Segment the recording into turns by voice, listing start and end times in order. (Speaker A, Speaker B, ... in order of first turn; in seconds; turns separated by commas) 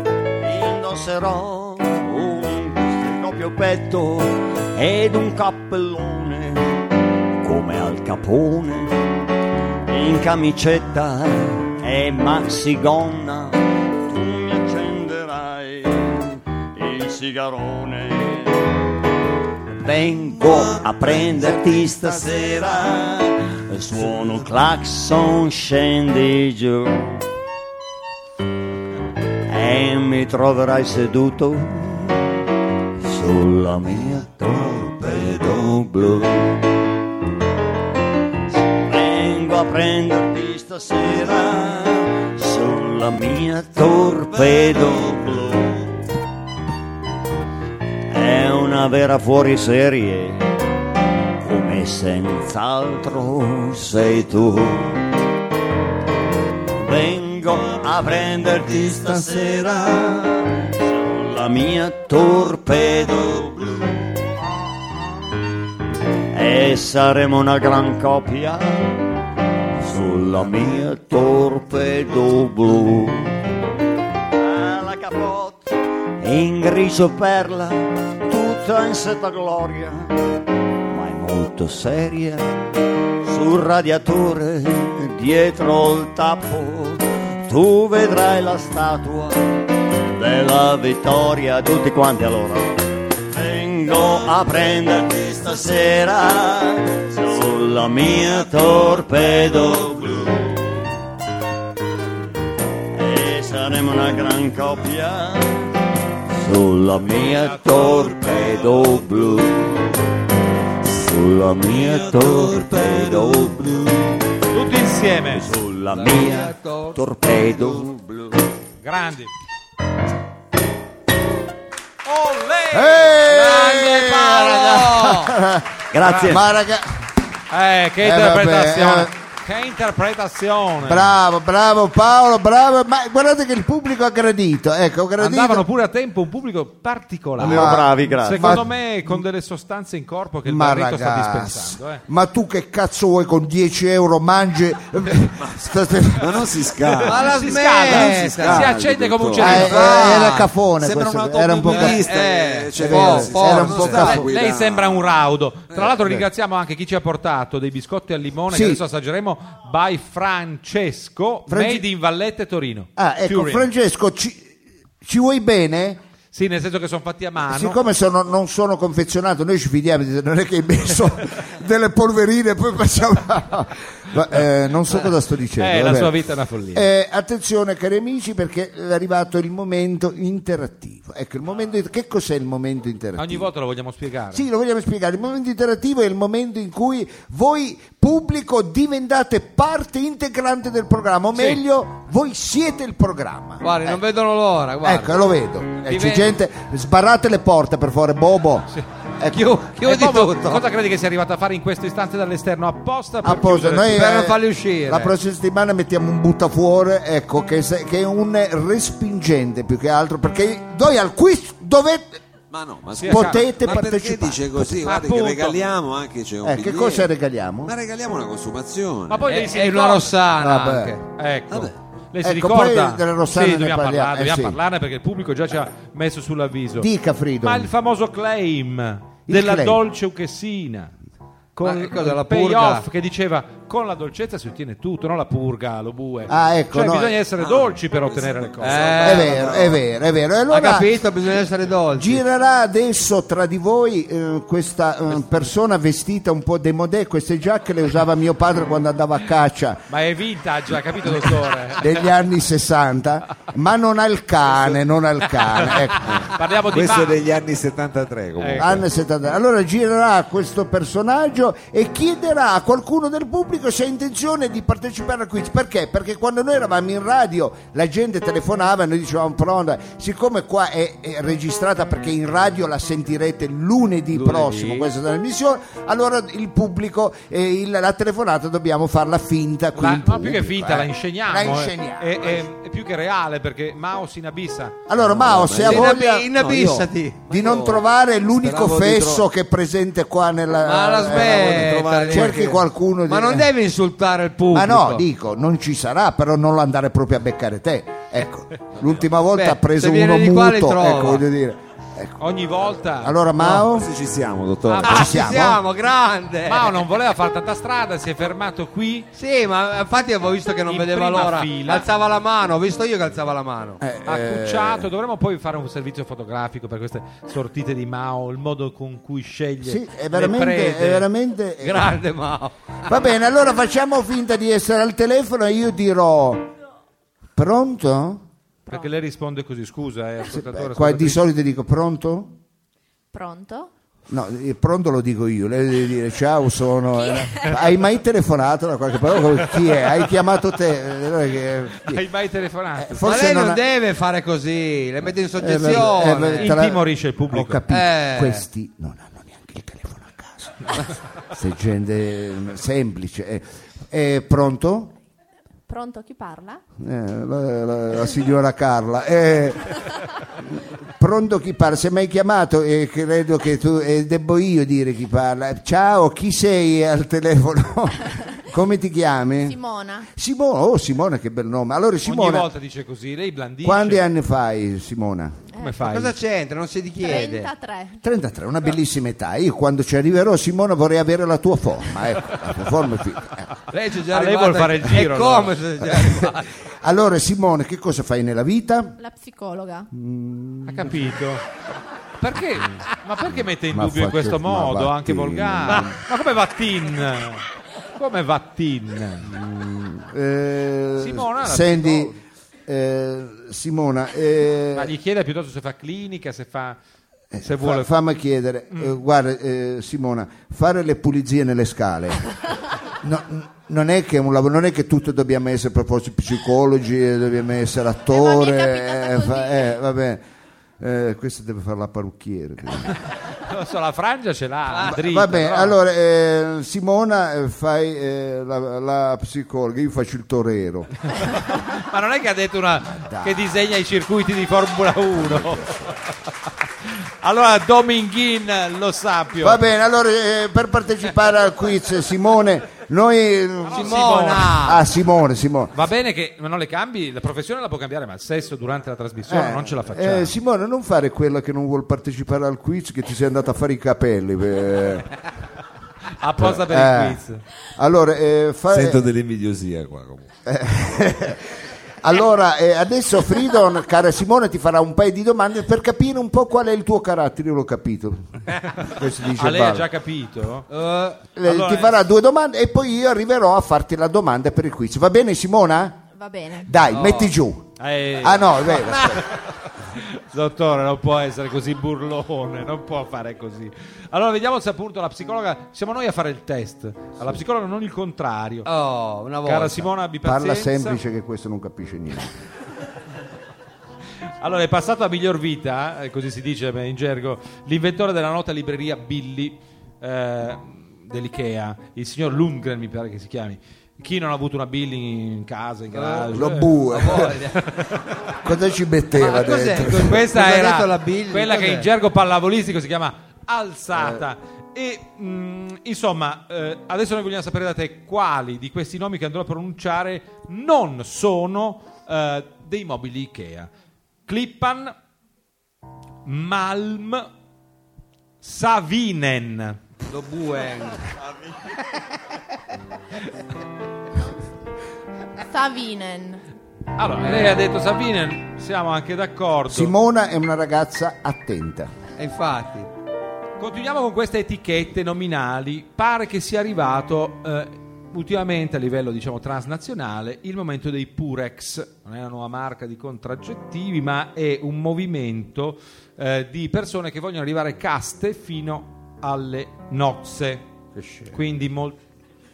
Speaker A: 0.4-6.8, Speaker A: 7.4-9.0, Speaker A: 9.9-18.7, Speaker A: 19.7-27.2, Speaker B: 21.2-22.0, Speaker A: 29.5-32.4, Speaker A: 33.0-36.6, Speaker A: 38.7-46.0, Speaker A: 48.1-50.5, Speaker A: 51.4-55.0, Speaker A: 56.7-64.0, Speaker A: 66.3-69.0, Speaker A: 69.8-73.3, Speaker A: 74.3-80.1, Speaker A: 80.8-82.5, Speaker A: 83.2-89.6, Speaker A: 90.1-101.0, Speaker A: 102.9-105.7, Speaker A: 106.3-110.0, Speaker B: 107.9-108.9, Speaker A: 110.8-114.2, Speaker B: 111.8-113.6, Speaker C: 114.5-115.5, Speaker A: 115.3-118.5, Speaker D: 115.9-117.0, Speaker C: 118.8-119.3, Speaker C: 122.0-123.3, Speaker E: 122.7-125.7, Speaker D: 123.2-125.3, Speaker A: 125.9-126.5, Speaker C: 126.0-126.4, Speaker E: 126.3-127.1, Speaker C: 127.5-131.1, Speaker E: 128.0-129.1, Speaker E: 130.8-135.7, Speaker C: 135.2-142.0, Speaker A: 137.4-138.7, Speaker E: 137.4-139.2, Speaker E: 140.4-146.6, Speaker B: 146.1-150.0, Speaker D: 147.1-148.7, Speaker C: 147.2-150.4, Speaker E: 149.4-152.1, Speaker D: 149.5-150.5, Speaker B: 150.8-155.2, Speaker D: 151.7-154.2, Speaker E: 152.8-154.3, Speaker C: 153.9-163.7, Speaker E: 155.9-156.3, Speaker E: 158.5-158.8, Speaker E: 161.5-161.9, Speaker E: 163.0-166.0, Speaker C: 166.3-167.8, Speaker E: 167.5-176.2, Speaker C: 175.6-176.9, Speaker E: 176.7-183.5, Speaker C: 183.2-184.4, Speaker E: 184.3-194.0, Speaker C: 191.3-191.6, Speaker D: 193.6-195.2, Speaker E: 194.8-199.5, Speaker D: 195.9-196.3, Speaker D: 199.3-200.7, Speaker C: 199.8-204.0, Speaker E: 203.2-212.2, Speaker D: 203.9-205.1, Speaker B: 212.5-217.1, Speaker C: 213.0-213.6, Speaker E: 213.1-214.8, Speaker C: 214.8-215.6, Speaker E: 216.4-217.8, Speaker B: 217.6-219.3, Speaker C: 219.1-220.2, Speaker D: 219.3-221.0, Speaker E: 220.4-221.0, Speaker C: 221.2-226.9, Speaker E: 222.2-224.6, Speaker E: 226.8-227.7, Speaker C: 227.4-230.9, Speaker E: 229.3-229.8, Speaker C: 231.6-239.2, Speaker D: 231.6-232.9, Speaker E: 236.3-237.2, Speaker B: 237.4-239.8, Speaker D: 238.6-239.5, Speaker E: 239.0-241.0, Speaker D: 240.5-242.2, Speaker E: 241.9-249.9, Speaker C: 249.9-252.1, Speaker E: 251.1-256.2, Speaker C: 255.6-257.2, Speaker B: 256.0-258.8, Speaker C: 258.4-258.8, Speaker E: 258.6-282.5, Speaker D: 274.1-274.9, Speaker C: 279.8-284.8, Speaker E: 284.9-286.3, Speaker B: 285.0-286.9, Speaker D: 285.6-287.8, Speaker E: 287.3-293.5, Speaker D: 288.4-289.2, Speaker D: 290.6-295.1, Speaker B: 291.1-292.6, Speaker E: 294.5-302.2, Speaker D: 299.3-301.2, Speaker C: 302.2-303.2, Speaker E: 303.0-303.9, Speaker B: 303.4-305.0, Speaker C: 304.7-305.3, Speaker E: 304.8-305.6, Speaker D: 304.9-306.8, Speaker C: 306.5-309.1, Speaker D: 309.1-313.8, Speaker C: 310.7-311.9, Speaker E: 313.8-314.9, Speaker C: 314.1-321.1, Speaker E: 319.6-322.0, Speaker D: 321.6-322.6, Speaker E: 322.9-326.5, Speaker E: 327.4-328.3, Speaker F: 328.7-328.9, Speaker C: 328.7-331.2, Speaker E: 330.3-332.4, Speaker F: 333.1-333.7, Speaker E: 334.1-342.0, Speaker F: 337.1-337.5, Speaker C: 341.9-343.1, Speaker E: 342.8-343.6, Speaker D: 343.0-346.5, Speaker E: 345.4-354.9, Speaker C: 345.6-347.6, Speaker D: 347.7-348.4, Speaker F: 355.7-356.6, Speaker E: 356.8-359.8, Speaker E: 360.4-369.6, Speaker F: 369.4-370.1, Speaker E: 370.1-372.5, Speaker C: 372.1-374.0, Speaker E: 373.6-375.4, Speaker F: 375.5-375.8, Speaker C: 375.6-376.2, Speaker D: 375.8-377.5, Speaker F: 377.0-378.0, Speaker E: 378.0-383.5, Speaker D: 383.7-386.5, Speaker C: 383.9-385.6, Speaker E: 385.8-389.0, Speaker F: 389.0-389.9, Speaker E: 389.9-391.1, Speaker C: 390.7-391.4, Speaker C: 392.2-397.4, Speaker E: 393.6-396.0, Speaker C: 398.0-399.3, Speaker E: 399.2-402.2, Speaker C: 401.0-402.1, Speaker E: 402.7-404.9, Speaker C: 404.7-406.8, Speaker E: 407.3-412.3, Speaker C: 407.4-407.9, Speaker C: 408.7-409.0, Speaker E: 413.0-420.2, Speaker F: 418.1-419.8, Speaker E: 420.8-423.0, Speaker C: 423.3-425.8, Speaker D: 424.7-425.0, Speaker E: 424.8-430.9, Speaker C: 431.2-436.1, Speaker E: 433.1-433.4, Speaker E: 435.4-435.6, Speaker C: 436.8-439.6, Speaker E: 439.4-445.8, Speaker C: 443.7-444.6, Speaker D: 443.7-444.9, Speaker C: 445.7-450.3, Speaker E: 449.3-455.1, Speaker C: 456.2-457.4, Speaker E: 456.4-457.2, Speaker E: 457.8-459.1, Speaker B: 458.7-460.3, Speaker E: 460.5-461.5, Speaker E: 462.0-469.9, Speaker C: 468.9-470.7, Speaker D: 470.7-471.2, Speaker E: 471.4-476.0, Speaker C: 471.4-472.0, Speaker F: 476.1-476.7, Speaker E: 476.6-479.2, Speaker D: 476.9-477.3, Speaker C: 477.8-488.7, Speaker D: 488.6-489.9, Speaker C: 489.4-491.0, Speaker E: 490.2-492.4, Speaker C: 494.4-508.0, Speaker D: 505.9-507.8, Speaker E: 506.3-507.4, Speaker E: 508.4-510.2, Speaker D: 509.1-511.9, Speaker C: 509.8-523.7, Speaker E: 513.9-514.2, Speaker C: 524.3-525.0, Speaker C: 526.2-527.3, Speaker C: 528.4-529.8, Speaker D: 530.1-531.0, Speaker F: 535.4-536.4, Speaker C: 537.0-539.9, Speaker D: 537.3-537.6, Speaker E: 539.7-541.9, Speaker D: 542.2-542.9, Speaker C: 543.6-560.7, Speaker C: 561.3-562.0